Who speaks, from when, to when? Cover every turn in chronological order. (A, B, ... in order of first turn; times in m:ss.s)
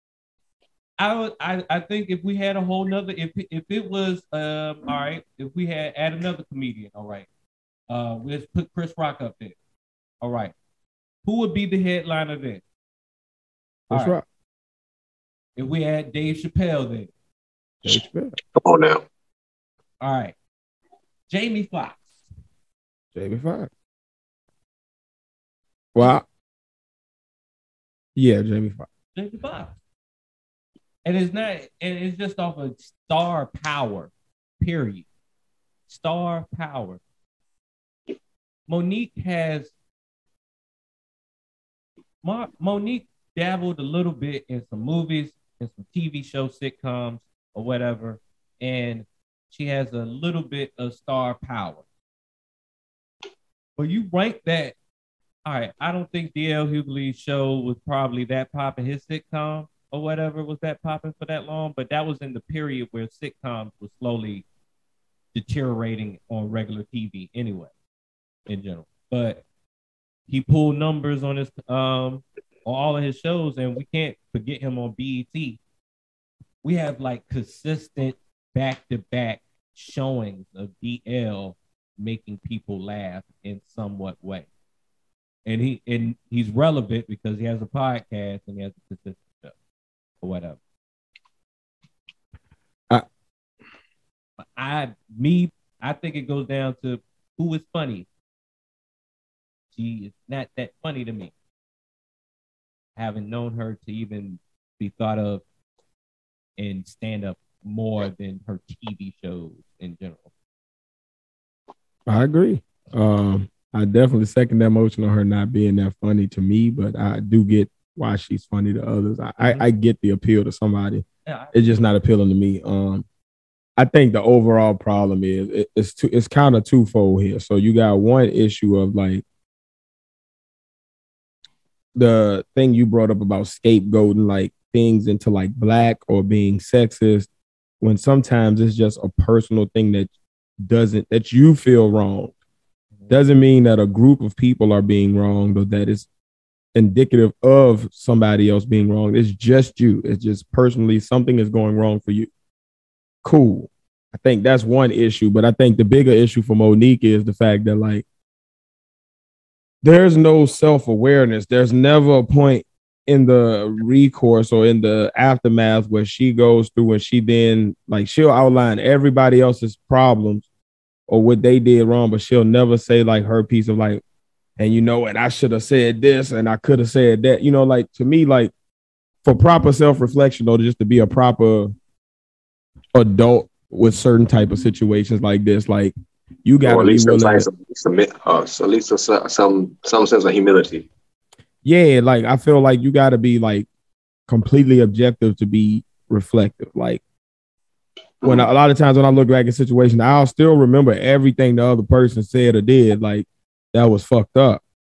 0:01.0-0:07.3 A
0:07.9-0:09.6 A
0:10.2-0:10.6 A
0:11.2-0:12.6 A
0:13.9-0:14.2 B
0:13.9-0:14.2 A
0:15.6-0:17.1 A
0:17.8-0:18.4 B
0:18.6-0:19.0 C
0:20.0-0:20.4 A
0:21.3-0:22.2 A
0:23.2-0:23.7 B
0:26.0-0:26.2 B
0:28.2-0:28.9 B
0:29.2-0:29.8 A
0:31.0-0:35.1 A
0:35.9-0:37.0 A
0:38.7-0:39.7 A
0:42.2-0:51.8 A
0:53.8-0:54.8 A
0:55.4-1:04.4 A
1:05.3-1:07.7 A
1:08.5-1:09.4 A
1:10.3-1:15.6 A
1:16.6-1:24.5 A
1:25.5-1:29.5 A
1:30.2-1:30.6 A
1:34.4-1:38.1 A
1:39.7-1:41.3 A
1:43.0-1:45.4 A
1:46.6-1:50.3 A
1:52.1-2:03.1 B
1:59.4-1:59.6 A
2:01.3-2:01.8 A
2:03.8-2:09.2 B
2:12.0-2:17.3 B
2:17.8-2:22.3 B
2:23.1-2:26.1 B
2:26.8-2:32.3 B
2:33.2-2:38.0 B
2:39.8-2:50.4 B
2:51.1-2:54.0 B
2:54.6-2:58.5 B
2:59.2-3:01.7 B
3:02.9-3:05.9 B
3:06.4-3:07.5 B
3:06.6-3:10.9 C
3:11.6-3:13.7 B
3:14.3-3:17.0 B
3:18.2-3:18.5 C
3:18.2-3:24.6 B